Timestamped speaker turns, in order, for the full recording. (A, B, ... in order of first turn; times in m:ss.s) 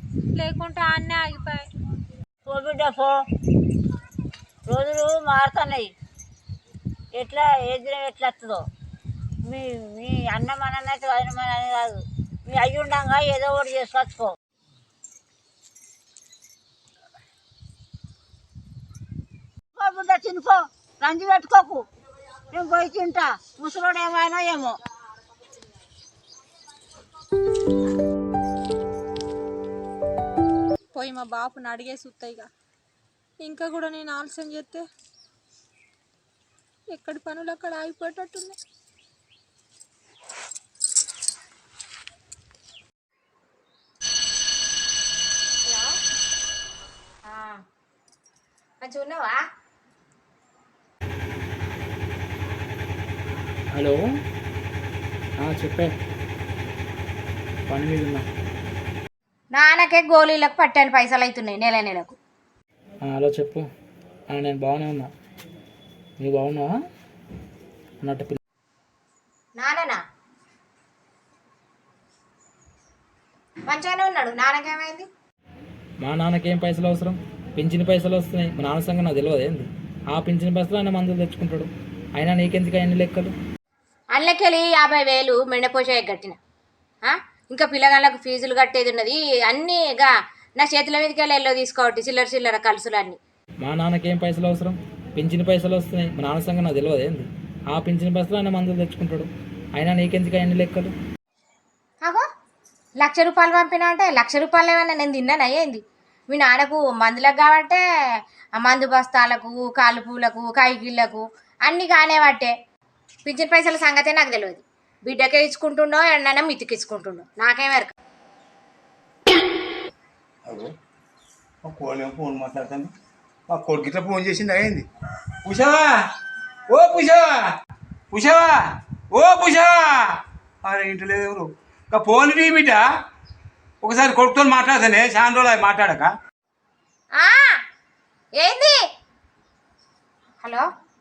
0:00.4-0:01.6 A
0:02.5-0:03.1 B
0:04.7-0:05.9 B
0:07.1-0:08.6 B
0:09.4-0:14.3 B
0:19.8-0:21.8 B
0:22.5-0:24.8 B
0:31.0-0:32.5 A
0:33.4-0:34.8 A
0:36.9-0:38.6 A
0:45.6-0:45.9 C
0:47.3-0:47.6 C
0:48.8-0:49.4 C
0:53.7-0:54.0 D
0:55.4-0:55.9 D
0:57.7-0:58.2 D
0:59.6-1:02.2 C
1:03.0-1:03.7 D
1:04.3-1:05.1 D
1:06.2-1:06.7 D
1:08.0-1:08.4 D
1:09.6-1:10.0 C
1:13.7-1:15.1 C
1:16.0-1:23.3 D
1:24.2-1:26.4 C
1:27.1-1:33.2 C
1:33.6-1:40.9 D
1:43.0-1:47.8 C
1:48.6-1:52.5 C
1:53.2-1:57.9 C
2:01.6-2:02.9 E
2:03.5-2:04.9 E
2:05.4-2:05.9 E
2:06.7-2:07.3 E
2:08.1-2:08.6 E
2:09.1-2:10.1 E
2:10.6-2:12.8 E
2:13.8-2:16.1 E
2:17.2-2:17.6 C
2:18.4-2:18.8 C